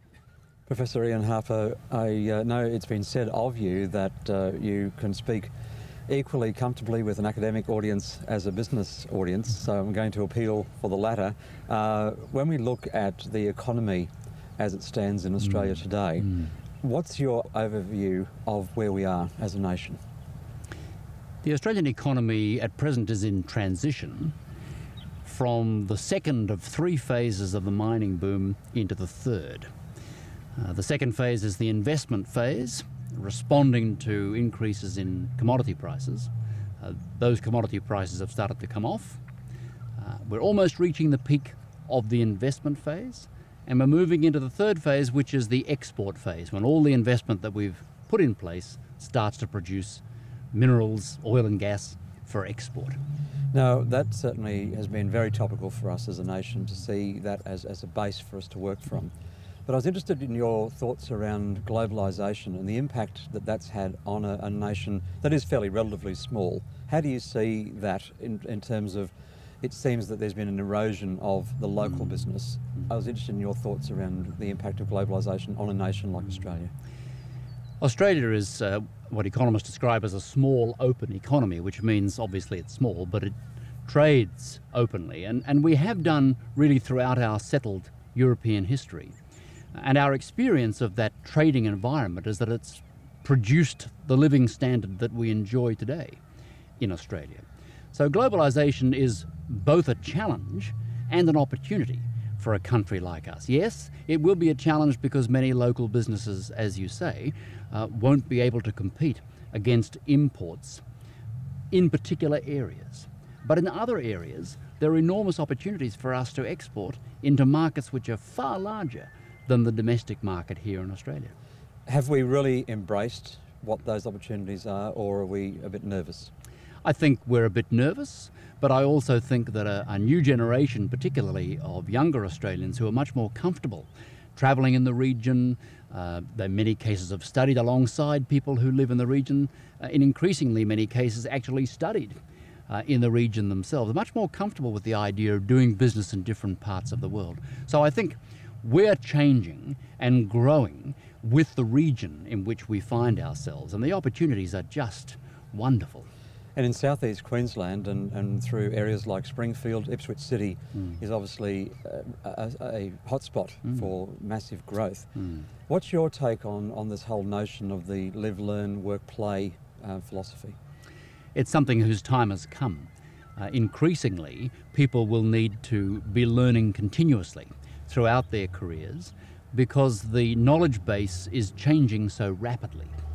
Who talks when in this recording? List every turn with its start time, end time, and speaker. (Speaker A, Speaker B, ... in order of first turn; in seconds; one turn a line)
Speaker A: 0.7-5.5
Speaker A: 6.1-20.0
Speaker B: 21.4-24.4
Speaker B: 25.2-29.7
Speaker B: 30.6-39.2
Speaker B: 40.0-50.0
Speaker B: 50.5-53.0
Speaker A: 53.5-59.1
Speaker A: 59.7-76.7
Speaker B: 77.8-89.2
Speaker B: 89.7-96.2
Speaker B: 96.8-110.8
Speaker B: 111.7-121.3
Speaker A: 121.9-126.3
Speaker B: 126.8-156.1
Speaker A: 156.6-170.6
Speaker B: 171.3-183.0